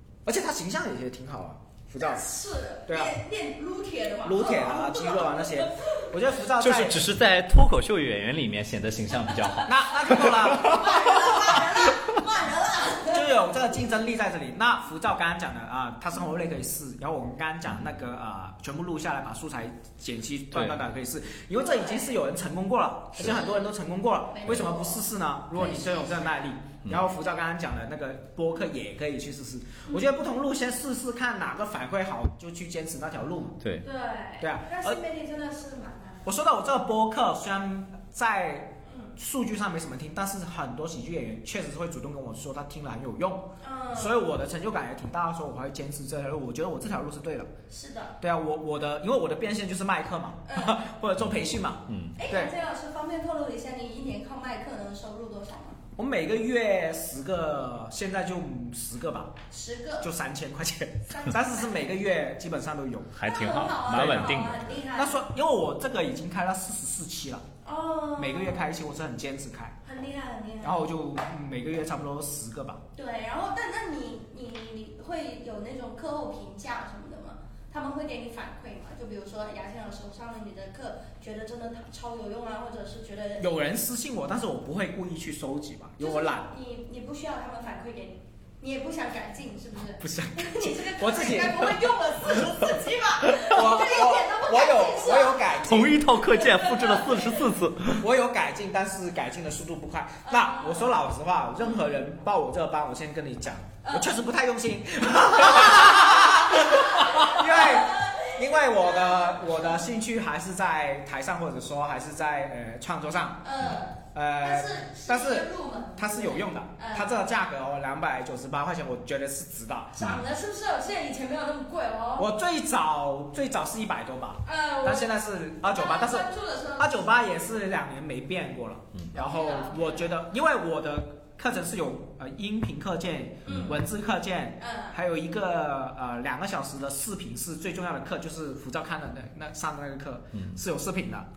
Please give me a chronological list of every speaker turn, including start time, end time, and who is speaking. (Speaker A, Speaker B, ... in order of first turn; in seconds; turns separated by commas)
Speaker A: 0.2-2.2, Speaker B: 2.0-6.0, Speaker A: 2.9-3.1, Speaker A: 4.2-7.0, Speaker C: 6.6-12.2, Speaker A: 9.7-11.4, Speaker B: 10.2-13.5, Speaker A: 13.1-33.6, Speaker C: 20.5-20.8, Speaker B: 21.5-22.2, Speaker B: 23.2-23.6, Speaker B: 24.3-25.0, Speaker B: 25.5-26.4, Speaker B: 33.8-36.3, Speaker A: 34.4-35.0, Speaker A: 36.2-47.5, Speaker B: 38.9-39.1, Speaker B: 43.6-44.2, Speaker B: 47.7-48.2, Speaker A: 48.2-52.5, Speaker B: 50.5-50.8, Speaker C: 51.2-52.2, Speaker B: 52.1-55.8, Speaker A: 56.0-59.4, Speaker B: 59.5-60.1, Speaker A: 60.0-67.5, Speaker B: 61.1-61.8, Speaker C: 63.1-64.8, Speaker B: 63.2-65.2, Speaker B: 67.6-68.7, Speaker A: 68.2-69.8, Speaker B: 69.8-70.8, Speaker A: 70.6-72.8, Speaker B: 72.9-83.5, Speaker A: 83.4-86.5, Speaker B: 86.0-97.5, Speaker A: 90.0-96.0, Speaker C: 95.6-98.0, Speaker A: 98.0-113.5, Speaker B: 100.2-101.0, Speaker B: 103.8-104.1, Speaker B: 105.5-109.8, Speaker B: 113.4-117.3, Speaker A: 114.1-120.1, Speaker B: 119.9-122.3, Speaker A: 122.2-141.3, Speaker B: 124.5-127.0, Speaker B: 129.1-130.1, Speaker C: 133.4-133.8, Speaker B: 134.6-135.0